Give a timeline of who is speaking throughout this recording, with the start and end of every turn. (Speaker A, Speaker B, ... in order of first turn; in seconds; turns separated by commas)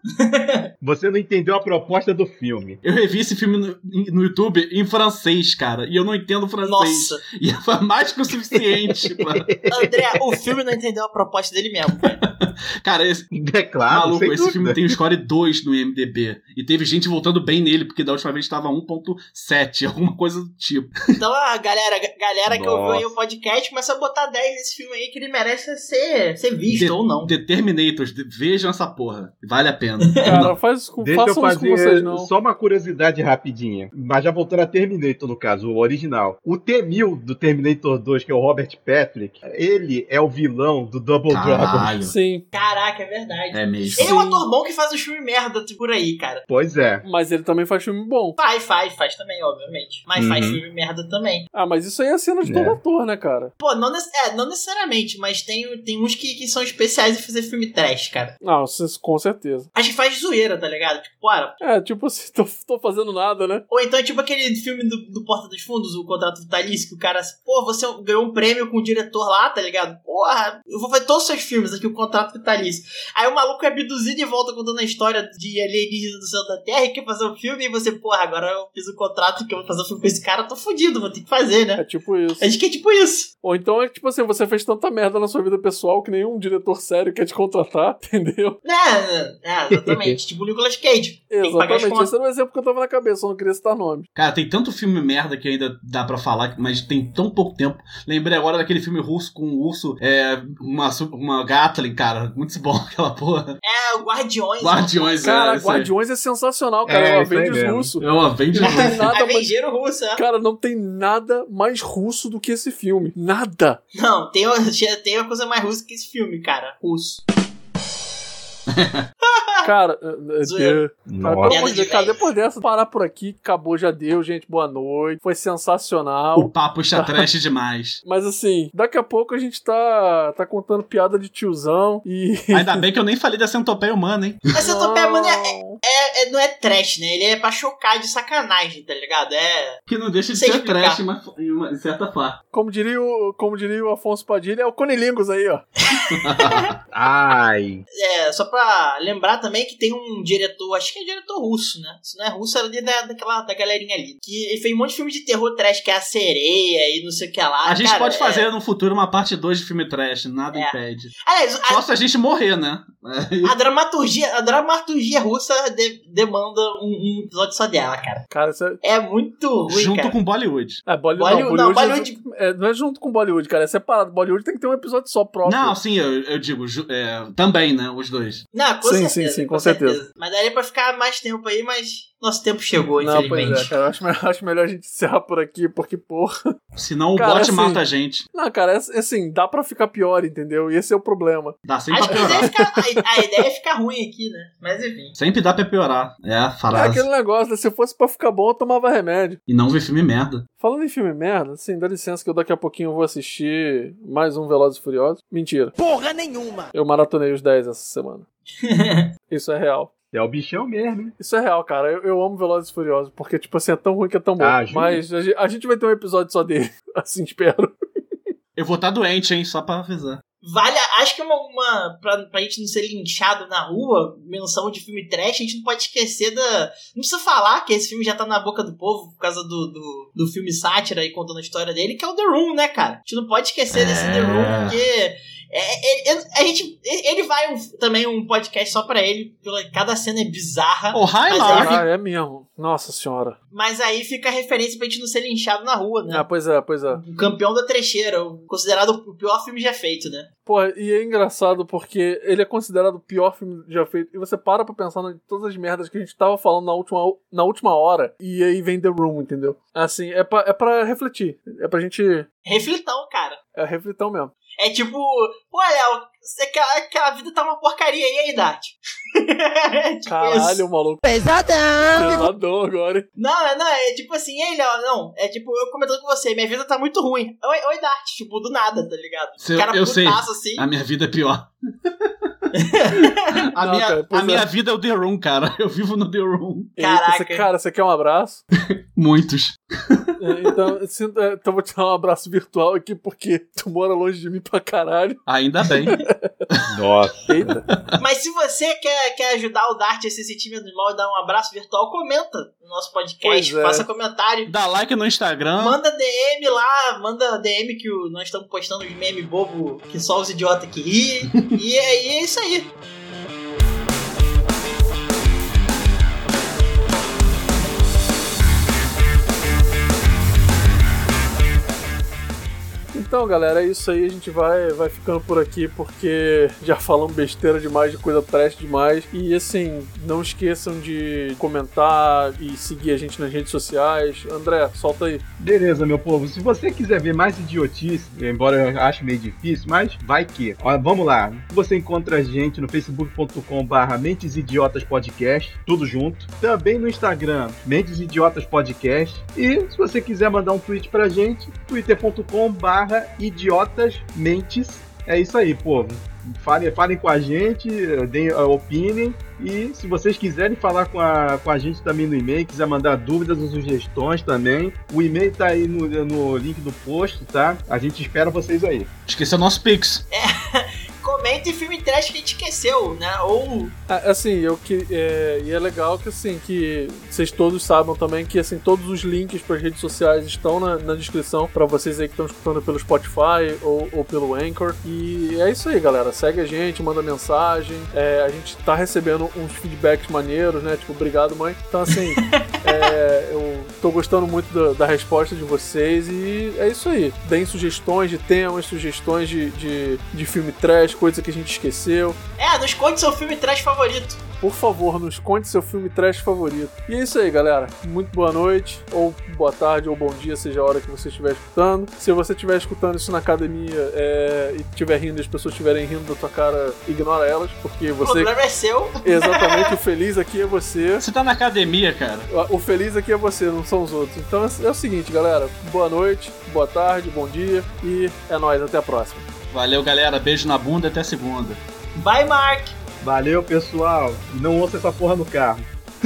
Speaker A: 0.2-0.7, Speaker B: 0.8-2.8, Speaker C: 2.8-9.5, Speaker A: 6.7-7.2, Speaker B: 9.1-9.9, Speaker A: 9.7-12.2, Speaker C: 12.2-13.3, Speaker B: 13.3-15.0, Speaker C: 13.9-20.9, Speaker A: 21.1-27.3, Speaker B: 22.5-23.1, Speaker C: 26.7-30.5, Speaker A: 30.0-30.4, Speaker D: 30.2-32.3, Speaker B: 31.0-42.0, Speaker C: 41.3-42.1, Speaker D: 42.0-42.4, Speaker A: 42.5-46.4, Speaker C: 43.5-44.1, Speaker D: 44.0-44.4, Speaker B: 46.5-47.0, Speaker D: 47.0-48.4, Speaker A: 48.4-51.5, Speaker B: 50.2-50.6, Speaker D: 51.5-53.5, Speaker B: 52.4-52.8, Speaker A: 53.6-58.3, Speaker D: 58.4-59.7, Speaker A: 59.7-61.6, Speaker D: 61.6-63.6, Speaker A: 63.7-81.8, Speaker D: 81.8-82.5, Speaker A: 82.4-83.3, Speaker D: 83.4-88.6, Speaker A: 88.6-92.1, Speaker B: 89.7-90.2, Speaker D: 91.3-94.1, Speaker C: 94.2-103.5, Speaker A: 103.6-105.2, Speaker C: 104.6-105.9, Speaker D: 105.2-108.0, Speaker B: 106.8-107.9, Speaker C: 108.0-109.0, Speaker D: 108.5-109.5, Speaker A: 108.5-110.2, Speaker D: 110.2-113.8, Speaker A: 114.0-117.2, Speaker C: 118.7-119.0, Speaker A: 119.2-119.7, Speaker D: 119.6-127.2, Speaker A: 120.4-120.8, Speaker B: 121.1-121.6, Speaker A: 121.4-122.3, Speaker C: 126.3-128.0, Speaker D: 128.0-132.8, Speaker C: 132.5-134.5, Speaker A: 134.5-139.8, Speaker D: 134.6-135.8, Speaker C: 139.9-142.4, Speaker A: 140.3-141.0, Speaker D: 142.5-145.6, Speaker A: 145.9-146.6, Speaker C: 146.2-146.7, Speaker B: 146.9-147.8, Speaker A: 148.0-158.5, Speaker C: 157.6-161.1, Speaker A: 161.2-161.8, Speaker C: 161.7-163.5, Speaker A: 163.4-168.2, Speaker D: 168.3-168.8, Speaker A: 168.8-170.1, Speaker C: 169.7-170.8, Speaker D: 170.8-175.8, Speaker A: 171.2-172.2, Speaker C: 175.4-178.4, Speaker A: 178.5-183.7, Speaker D: 178.8-180.0, Speaker D: 183.0-186.4, Speaker C: 186.8-188.2, Speaker D: 187.2-187.8, Speaker D: 188.3-191.6, Speaker C: 191.7-192.5, Speaker A: 191.9-195.1, Speaker D: 192.1-192.7, Speaker C: 195.2-197.0, Speaker D: 196.7-199.4, Speaker C: 199.5-200.4, Speaker D: 200.6-205.7, Speaker E: 205.8-206.7, Speaker D: 206.7-208.2, Speaker A: 208.6-209.1, Speaker D: 209.3-209.9, Speaker B: 210.1-211.1, Speaker D: 211.2-217.7, Speaker B: 214.4-215.0, Speaker C: 218.6-220.2, Speaker A: 220.4-241.8, Speaker C: 233.7-234.8, Speaker C: 240.9-241.8, Speaker D: 241.4-243.4, Speaker A: 243.5-246.2, Speaker D: 246.1-247.0, Speaker A: 246.9-250.3, Speaker D: 250.4-262.3, Speaker A: 262.4-263.4, Speaker D: 263.5-264.3, Speaker A: 264.6-270.6, Speaker D: 270.1-271.0, Speaker E: 271.0-272.3, Speaker D: 271.9-273.1, Speaker A: 273.2-280.6, Speaker C: 279.4-282.1, Speaker A: 282.5-283.4, Speaker C: 283.5-286.8, Speaker D: 283.6-284.5, Speaker A: 286.8-287.5, Speaker D: 286.8-288.4, Speaker C: 288.9-290.1, Speaker D: 290.2-295.2, Speaker C: 295.3-296.0, Speaker D: 295.8-296.3, Speaker B: 296.7-297.6, Speaker D: 297.2-297.6, Speaker A: 298.0-304.5, Speaker D: 303.2-303.9, Speaker C: 304.5-305.8, Speaker A: 305.6-312.7, Speaker D: 322.9-335.2, Speaker B: 335.4-368.9, Speaker C: 369.1-370.0, Speaker A: 370.1-373.8, Speaker D: 373.9-402.2, Speaker A: 392.1-392.5, Speaker A: 402.4-404.2, Speaker D: 404.4-418.3, Speaker A: 418.0-419.7, Speaker D: 419.0-421.1, Speaker C: 421.0-422.3, Speaker D: 422.3-429.2, Speaker C: 429.5-431.6, Speaker A: 431.9-432.7, Speaker B: 433.0-435.7